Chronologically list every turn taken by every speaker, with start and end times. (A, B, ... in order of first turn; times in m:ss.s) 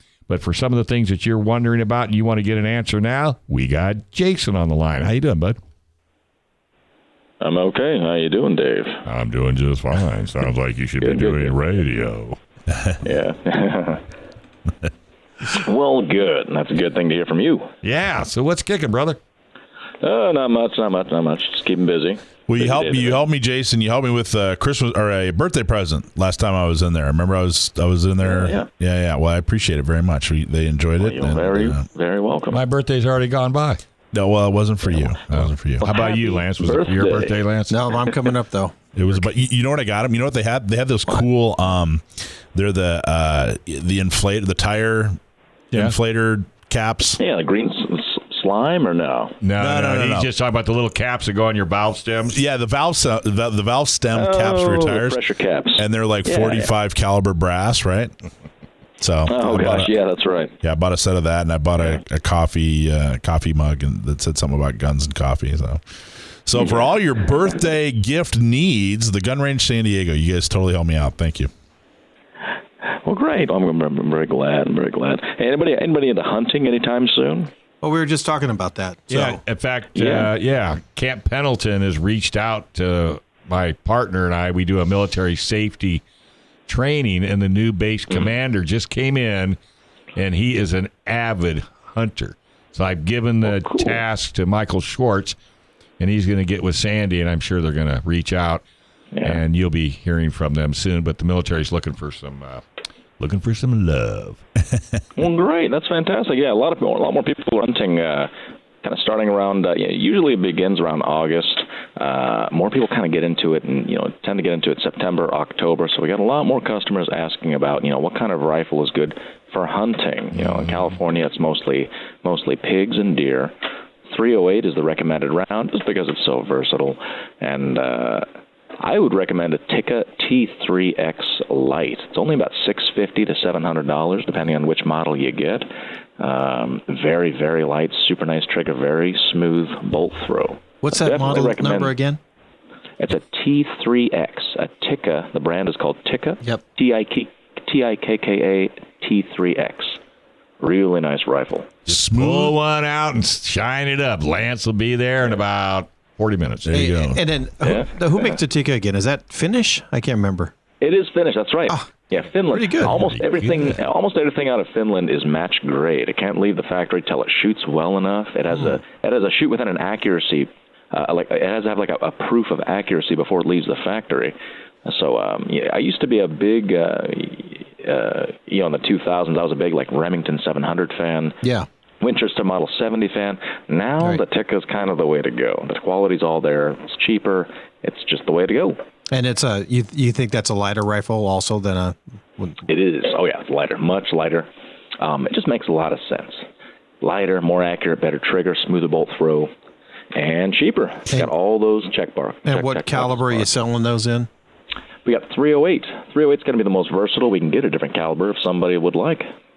0:00.3-0:05.6 A
0:07.4-0:09.0 B
0:09.0-0:12.4 A
0:11.0-0:11.5 B
0:13.0-0:14.0 B
0:15.4-0:17.7 B
0:17.8-0:19.2 A
0:20.0-0:23.2 B
0:22.5-0:31.8 C
0:28.2-0:28.7 B
0:31.0-0:32.6 B
0:32.5-0:33.8 A
0:34.1-0:35.8 C
0:35.3-0:37.9 A
0:35.8-0:37.3 B
0:37.7-0:38.8 D
0:38.9-0:45.2 C
0:45.7-0:47.2 C
0:47.2-0:49.4 B
0:49.4-0:52.4 A
0:49.6-0:50.3 C
0:52.3-0:55.2 C
0:54.1-0:56.7 B
0:55.8-0:58.1 C
0:59.0-0:59.9 C
0:59.3-1:00.5 B
1:00.6-1:05.8 C
1:06.4-1:11.5 C
1:13.0-1:17.5 B
1:17.8-1:19.4 D
1:19.1-1:26.0 A
1:20.0-1:20.3 B
1:26.7-1:29.6 A
1:30.2-1:35.4 A
1:33.4-1:34.0 B
1:36.0-1:38.6 A
1:39.1-1:39.4 B
1:39.2-1:42.6 A
1:43.2-1:44.4 A
1:45.2-1:48.3 B
1:48.8-2:03.5 B
2:04.1-2:08.2 B
2:08.8-2:15.7 B
2:16.2-2:21.9 B
2:20.8-2:22.2 D
2:23.0-2:30.0 B
2:30.6-2:31.7 B
2:31.9-2:32.5 C
2:31.9-2:37.2 A
2:36.7-2:40.5 D
2:37.6-2:38.4 B
2:40.8-3:01.4 B
2:41.7-2:42.9 D
2:42.8-2:43.8 A
3:02.0-3:08.8 B
3:09.1-3:12.6 D
3:12.7-3:14.5 B
3:15.0-3:16.4 B
3:17.0-3:19.5 B
3:20.1-3:23.5 B
3:22.4-3:24.3 D
3:25.0-3:29.3 B